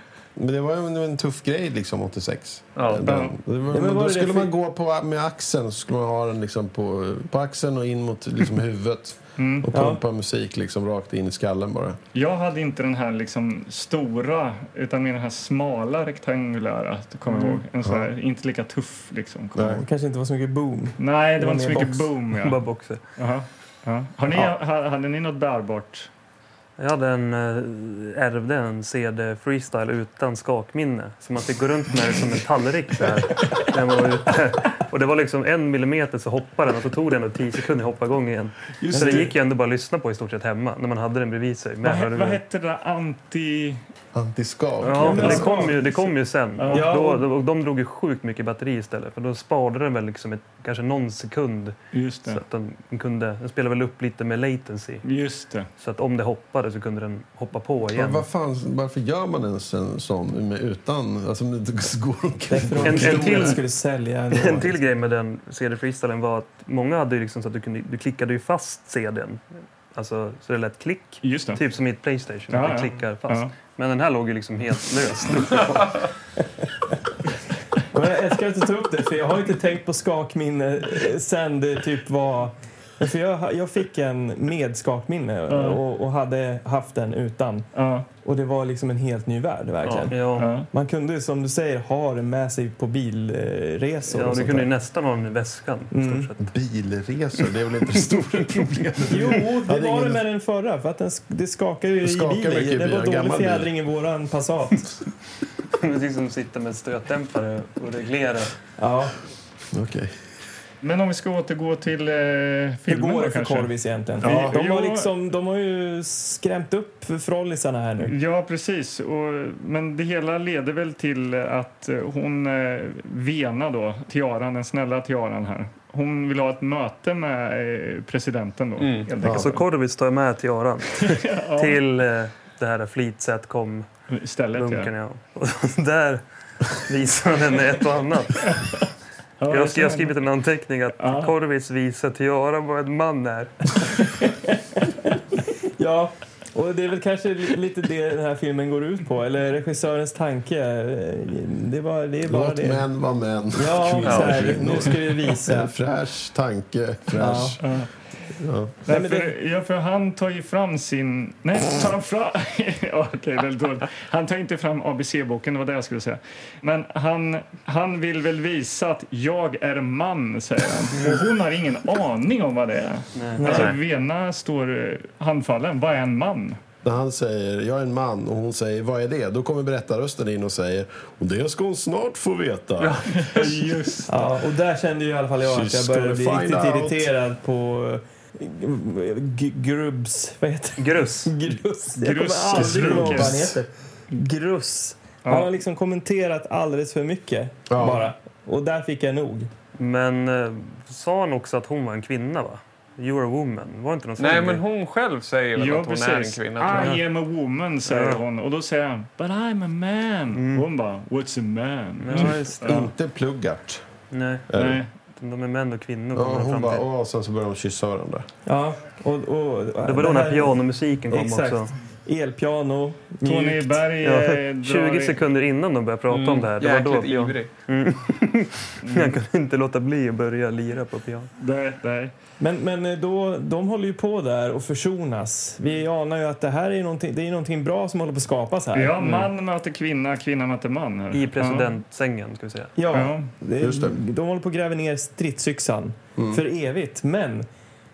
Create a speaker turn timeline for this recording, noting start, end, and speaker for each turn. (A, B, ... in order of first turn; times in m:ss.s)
0:00.4-0:12.0 A
0:02.8-0:03.1 B
0:03.1-0:03.4 C
0:03.7-0:04.5 D
0:09.4-0:09.7 C
0:09.7-0:10.0 D
0:12.1-0:19.8 C
0:17.8-0:18.1 A
0:19.6-0:19.8 A
0:19.8-0:22.1 D
0:21.0-0:22.6 C
0:22.3-0:23.0 E
0:23.2-0:26.1 C
0:26.8-0:42.4 E
0:38.9-0:39.2 C
0:38.9-0:39.3 D
0:41.8-0:43.8 C
0:44.1-0:45.5 A
0:44.8-0:55.0 E
0:45.0-0:45.8 D
0:45.1-0:46.0 C
0:46.6-0:46.9 C
0:46.7-0:47.2 D
0:51.9-0:52.4 C
0:55.0-0:55.7 C
0:55.8-0:58.2 E
0:57.9-1:03.6 A
1:02.5-1:04.8 D
1:02.8-1:03.6 E
1:04.3-1:09.4 E
1:09.9-1:16.1 E
1:11.2-1:11.6 C
1:12.5-1:13.5 C
1:17.9-1:27.7 D
1:25.5-1:25.8 C
1:27.8-1:28.1 C
1:28.2-1:34.7 D
1:29.8-1:30.1 B
1:30.1-1:30.5 E
1:30.4-1:30.7 C
1:34.1-1:36.5 E
1:35.9-1:36.3 D
1:36.4-1:40.2 A
1:39.1-1:44.9 D
1:42.0-1:43.7 A
1:45.8-1:48.6 E
1:48.8-1:49.2 D
1:49.7-1:50.2 A
1:50.8-1:53.7 C
1:52.9-1:58.1 D
1:54.2-1:54.6 A
1:54.2-1:55.1 C
1:58.0-2:09.6 C
2:08.8-2:09.1 B
2:09.2-2:09.5 A
2:09.2-2:13.9 E
2:11.0-2:11.8 C
2:14.1-2:14.9 C
2:14.6-2:18.7 E
2:18.4-2:18.8 C
2:19.4-2:20.1 C
2:19.5-2:24.0 E
2:21.0-2:21.3 C
2:24.8-2:25.2 D
2:25.8-2:32.9 D
2:32.3-2:37.6 A
2:33.5-2:35.7 D
2:34.0-2:34.6 B
2:37.1-2:37.6 D
2:37.6-2:37.9 C
2:38.4-2:38.8 A
2:38.9-2:56.6 C
2:38.9-2:39.3 D
2:53.2-2:53.7 E
2:53.4-2:53.7 D
2:53.4-2:53.8 B
2:56.8-3:03.0 A
3:02.8-3:03.9 B
3:03.2-3:04.2 C
3:04.1-3:19.5 D
3:05.4-3:07.1 A
3:10.8-3:11.3 E
3:12.0-3:13.5 C
3:12.5-3:13.3 A
3:17.7-3:18.1 A
3:19.8-3:24.6 E
3:24.2-3:27.0 B
3:25.6-3:32.9 C
3:26.7-3:27.0 E
3:27.9-3:28.2 E
3:30.3-3:30.7 E
3:32.0-3:32.9 E
3:32.2-3:33.8 A
3:34.1-3:34.5 E
3:34.5-3:34.8 A
3:34.5-3:34.9 C
3:35.2-3:36.9 E
3:36.2-3:38.3 A
3:38.4-3:43.8 D
3:39.8-3:41.7 E
3:43.2-3:45.2 C
3:44.0-3:51.3 E
3:46.1-3:47.5 B
3:48.8-3:49.2 C
3:51.4-3:52.1 C
3:52.4-3:59.3 D
3:58.7-4:01.7 C
4:01.1-4:02.7 E
4:02.8-4:07.5 D
4:02.9-4:03.3 C
4:03.6-4:04.0 A
4:06.2-4:06.4 A